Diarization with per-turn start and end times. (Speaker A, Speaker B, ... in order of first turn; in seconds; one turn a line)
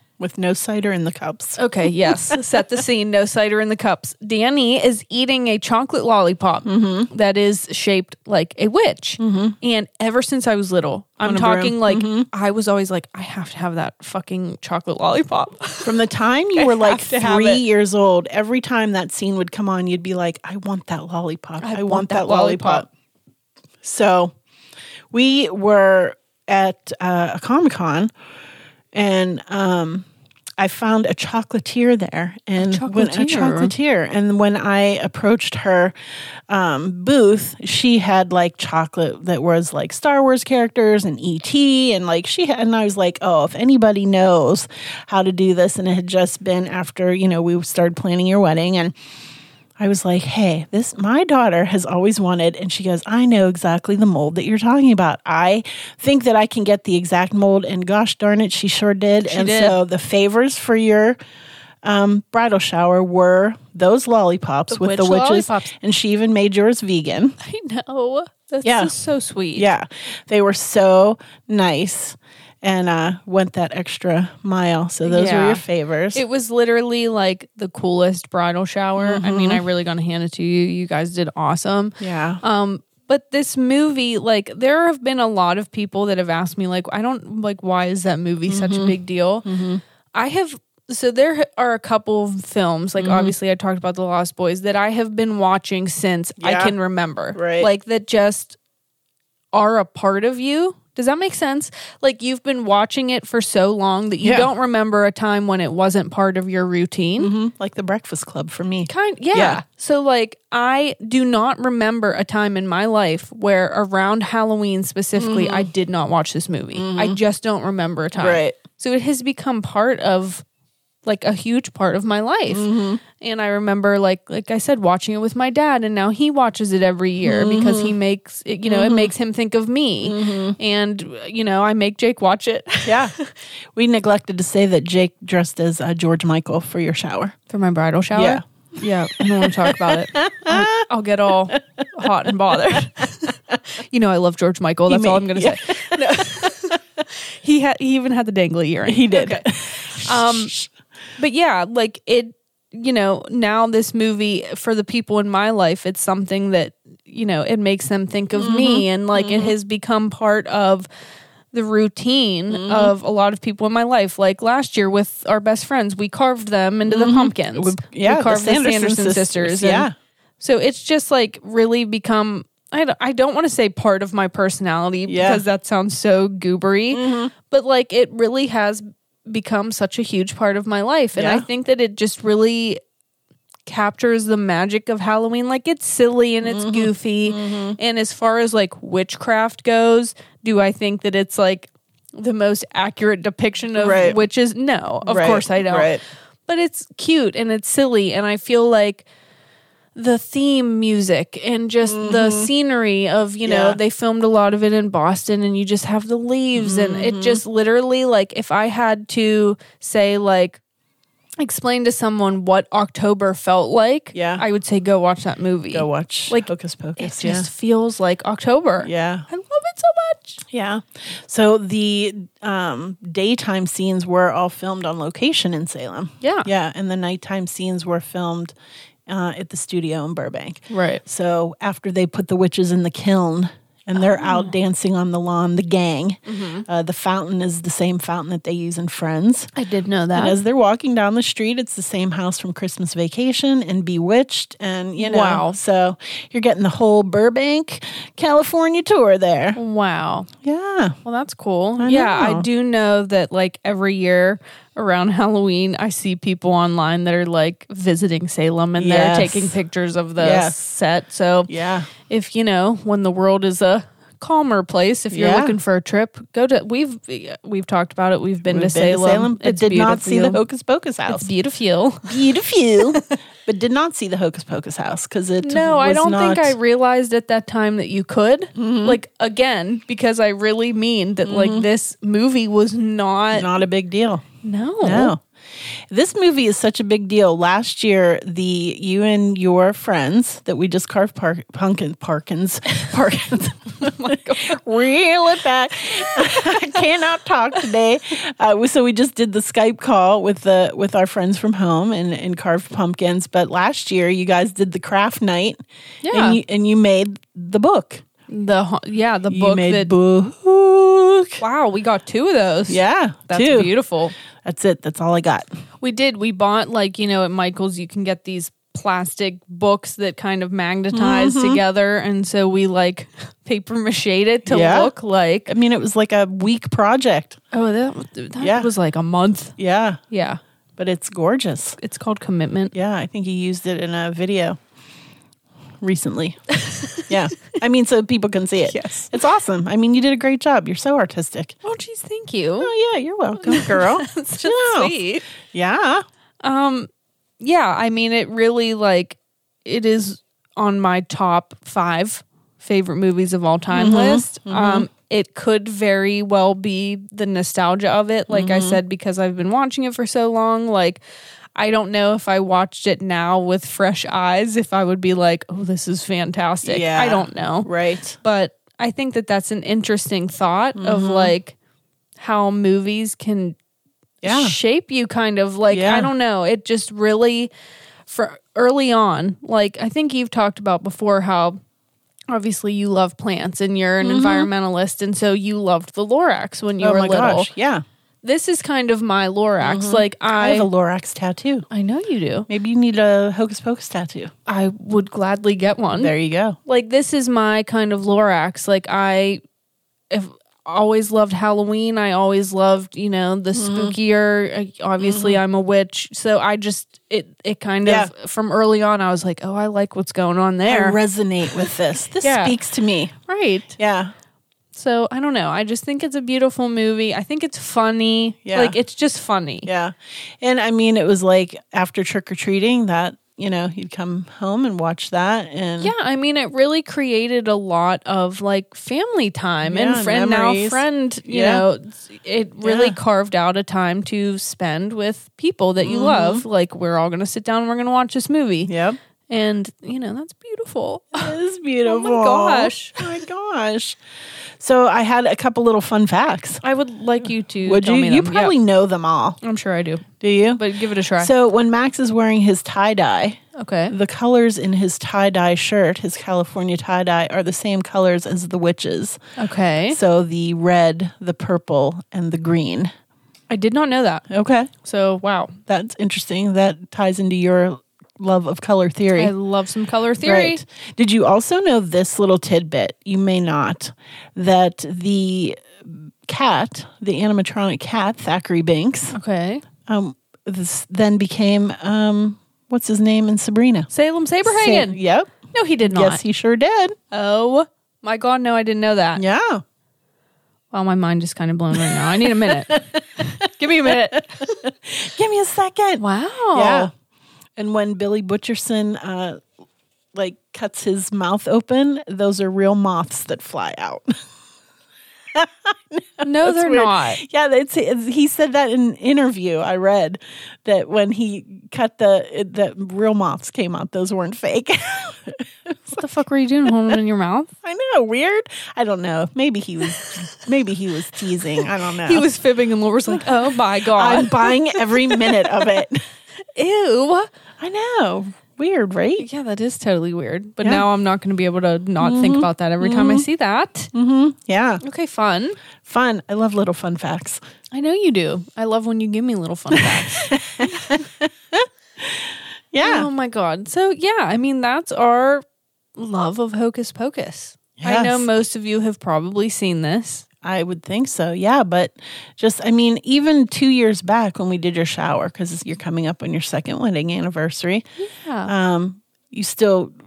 Speaker A: 0.2-2.4
Speaker B: 1.6-15.9
Speaker A: 6.7-7.1
Speaker A: 9.2-9.6
Speaker A: 11.2-12.3
Speaker A: 15.8-22.9
Speaker B: 16.6-17.6
Speaker B: 21.6-22.9
Speaker A: 23.8-24.3
Speaker A: 25.1-28.1
Speaker A: 28.9-30.1
Speaker A: 30.6-35.9
Speaker B: 32.6-33.7
Speaker A: 36.5-48.9
Speaker A: 49.8-61.2
Speaker B: 59.2-59.8
Speaker A: 61.8-67.3
Speaker B: 64.7-65.7
Speaker B: 67.4-69.7
Speaker A: 68.6-68.9
Speaker A: 69.5-76.2
Speaker B: 75.0-75.6
Speaker B: 76.1-89.5
Speaker A: 79.0-79.6
Speaker A: 82.0-82.4
Speaker A: 88.5-89.8
Speaker B: 90.1-98.6
Speaker A: 93.0-93.3
Speaker A: 96.4-96.7
Speaker A: 97.3-97.7
Speaker B: 99.5-107.3
Speaker A: 104.2-104.5
Speaker A: 107.2-109.6
Speaker B: 108.9-120.4
Speaker A: 115.2-115.7
Speaker A: 116.8-117.2
Speaker A: 118.1-118.6
Speaker B: 121.0-133.3
Speaker A: 122.5-123.0
Speaker A: 127.2-127.9
Speaker A: 128.7-129.1
Speaker A: 130.0-130.6
Speaker A: 132.8-133.1
Speaker A: 133.7-137.3
Speaker B: 137.5-146.8
Speaker A: 138.1-138.4
Speaker A: 139.2-140.8
Speaker A: 144.9-146.5
Speaker B: 147.4-150.5
Speaker A: 148.8-150.7
Speaker B: 151.2-160.9
Speaker A: 158.3-159.5
Speaker B: 161.5-169.9
Speaker A: 162.5-162.9
Speaker A: 166.9-169.9
Speaker B: 170.4-182.8
Speaker A: 175.1-175.4
Speaker A: 176.9-177.3
Speaker A: 181.2-181.4
Speaker B: 183.7-199.0
Speaker A: 186.4-187.8
Speaker A: 193.8-194.2
Speaker A: 195.0-196.0
Speaker B: 199.9-210.6
Speaker A: 201.9-202.5
Speaker A: 203.4-203.8
Speaker A: 206.5-207.4
Speaker B: 211.4-220.4
Speaker A: 214.1-214.4
Speaker A: 215.7-217.5
Speaker A: 218.8-219.3
Speaker A: 220.4-228.5
Speaker B: 226.2-226.5
Speaker A: 229.1-239.5
Speaker B: 230.7-231.0
Speaker B: 233.9-234.5
Speaker B: 236.2-236.6
Speaker B: 239.5-240.4
Speaker A: 240.1-249.6
Speaker B: 245.0-245.6
Speaker B: 249.5-250.3
Speaker A: 250.4-251.0
Speaker B: 251.0-261.5
Speaker A: 251.8-252.4
Speaker A: 258.8-259.6
Speaker A: 260.2-260.7
Speaker A: 261.5-261.9
Speaker B: 262.1-270.4
Speaker A: 265.1-265.6
Speaker A: 268.4-271.3
Speaker B: 271.1-272.2
Speaker A: 272.1-276.6
Speaker B: 275.4-283.5
Speaker A: 278.6-279.0
Speaker A: 281.2-281.6
Speaker A: 283.3-284.2
Speaker B: 284.4-285.1
Speaker A: 284.8-285.2
Speaker A: 285.9-305.6
Speaker B: 293.8-294.6
Speaker B: 295.9-296.8
Speaker B: 306.0-306.4
Speaker A: 306.1-308.0
Speaker B: 308.3-309.9
Speaker A: 309.3-311.4
Speaker B: 311.4-314.1
Speaker A: 312.7-313.7
Speaker A: 314.4-315.5
Speaker B: 315.8-325.5
Speaker A: 320.9-321.6
Speaker A: 324.4-324.9
Speaker A: 325.5-327.4
Speaker B: 327.5-329.5
Speaker A: 328.4-328.7
Speaker A: 329.6-330.0
Speaker B: 330.1-330.4
Speaker A: 330.8-331.8
Speaker B: 331.8-332.7
Speaker A: 332.7-334.6
Speaker A: 335.8-336.4
Speaker B: 336.6-337.1
Speaker A: 337.1-341.6
Speaker B: 338.7-339.1
Speaker B: 341.6-342.7
Speaker A: 342.6-344.9
Speaker B: 343.4-345.2
Speaker A: 345.5-346.0
Speaker B: 346.4-346.9
Speaker B: 347.4-361.0
Speaker A: 353.7-354.9
Speaker A: 358.3-358.8
Speaker B: 361.6-371.5
Speaker A: 366.6-368.1
Speaker A: 370.8-371.3
Speaker B: 372.2-373.6
Speaker A: 374.2-374.5
Speaker B: 374.2-377.5
Speaker A: 375.7-376.1
Speaker B: 378.1-381.6
Speaker B: 382.3-387.5
Speaker A: 384.0-384.5
Speaker A: 386.8-387.8
Speaker B: 388.2-390.7
Speaker A: 389.6-391.6
Speaker B: 391.7-392.5
Speaker A: 392.5-394.3
Speaker B: 394.5-396.1
Speaker A: 396.0-396.6
Speaker B: 396.6-399.4
Speaker B: 400.1-411.0
Speaker A: 403.5-404.0
Speaker A: 405.0-405.4
Speaker A: 407.8-408.1
Speaker A: 410.7-413.1
Speaker B: 412.2-412.5
Speaker B: 413.3-413.8
Speaker A: 413.8-414.1
Speaker B: 414.7-419.7
Speaker A: 418.4-418.8
Speaker A: 419.6-425.9
Speaker B: 425.8-438.7
Speaker A: 429.6-431.6
Speaker A: 432.6-432.9
Speaker A: 435.8-436.4
Speaker A: 438.7-439.0
Speaker B: 439.3-441.3
Speaker A: 441.1-444.0
Speaker B: 441.9-443.1
Speaker A: 444.6-446.6
Speaker B: 446.6-448.5
Speaker A: 447.6-449.4
Speaker B: 449.4-451.3
Speaker A: 450.2-450.6
Speaker A: 451.2-459.2
Speaker B: 453.6-453.9
Speaker B: 459.4-460.0
Speaker A: 459.9-462.9
Speaker B: 463.5-464.2
Speaker A: 464.3-464.7
Speaker B: 464.8-465.6
Speaker A: 465.7-469.3
Speaker B: 469.1-470.6
Speaker A: 470.2-479.1
Speaker B: 479.1-479.6
Speaker A: 479.9-483.9
Speaker B: 483.9-485.0
Speaker A: 484.4-485.3
Speaker B: 485.5-486.2
Speaker A: 485.9-486.9
Speaker B: 487.1-489.2
Speaker A: 489.1-489.6
Speaker B: 490.7-494.6
Speaker A: 491.9-496.9
Speaker B: 496.0-496.9
Speaker A: 497.6-499.4
Speaker A: 500.1-504.2
Speaker A: 505.3-516.0
Speaker B: 506.2-507.2
Speaker B: 515.9-517.5
Speaker A: 517.6-522.2
Speaker B: 522.0-525.6
Speaker A: 523.1-526.0
Speaker B: 526.5-527.3
Speaker A: 527.6-529.3
Speaker B: 529.2-533.9
Speaker A: 532.0-533.3
Speaker A: 533.9-534.8
Speaker B: 534.8-535.6
Speaker A: 535.8-537.4
Speaker B: 537.7-541.0
Speaker A: 539.7-543.1
Speaker B: 542.8-545.4
Speaker B: 546.0-550.2
Speaker A: 547.8-548.3
Speaker A: 550.4-557.8
Speaker B: 558.0-558.5
Speaker A: 558.5-559.9